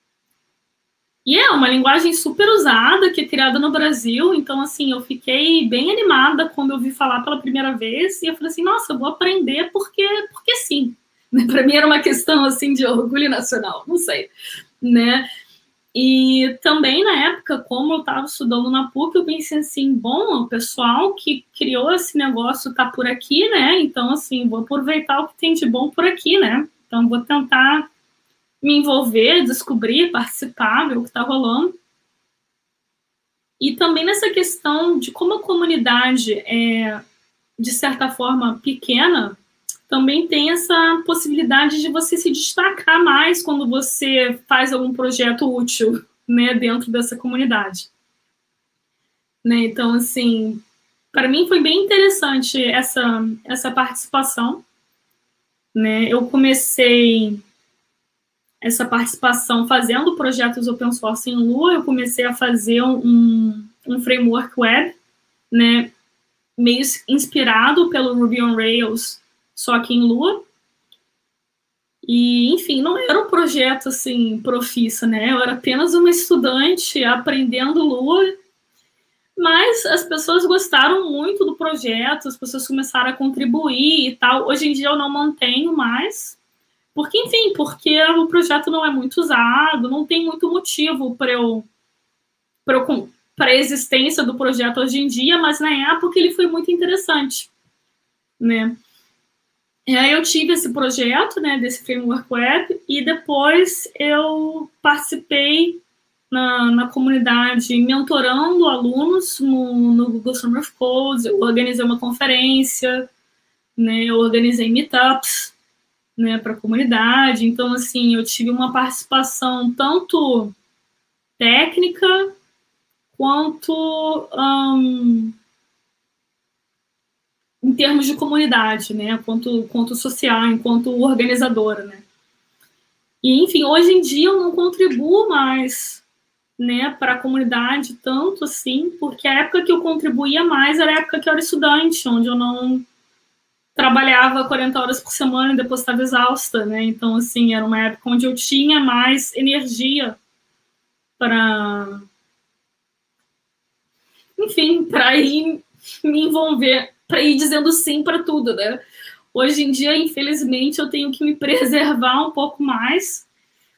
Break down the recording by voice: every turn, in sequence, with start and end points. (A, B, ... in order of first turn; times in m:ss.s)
0:01.2-0:14.3 A
0:14.8-0:15.3 A
0:15.9-0:27.9 A
0:28.6-0:31.8 A
0:33.6-0:37.0 A
0:37.6-0:39.4 A
0:39.9-0:47.9 A
0:49.4-0:54.6 A
0:55.7-0:57.4 A
0:58.6-1:05.0 A
1:05.5-1:05.9 A
1:06.6-1:10.4 A
1:12.0-1:18.4 A
1:19.4-1:26.4 A
1:26.9-1:31.7 A
1:32.7-1:37.5 A
1:38.4-1:38.8 A
1:39.9-1:53.1 A
1:53.8-1:55.5 A
1:56.2-2:00.6 A
2:01.4-2:02.3 A
2:03.1-2:05.3 A
2:07.6-2:12.0 A
2:13.2-2:16.0 A
2:16.6-2:22.8 A
2:23.8-2:30.2 A
2:31.2-2:32.0 A
2:34.4-2:38.8 A
2:39.3-2:43.3 A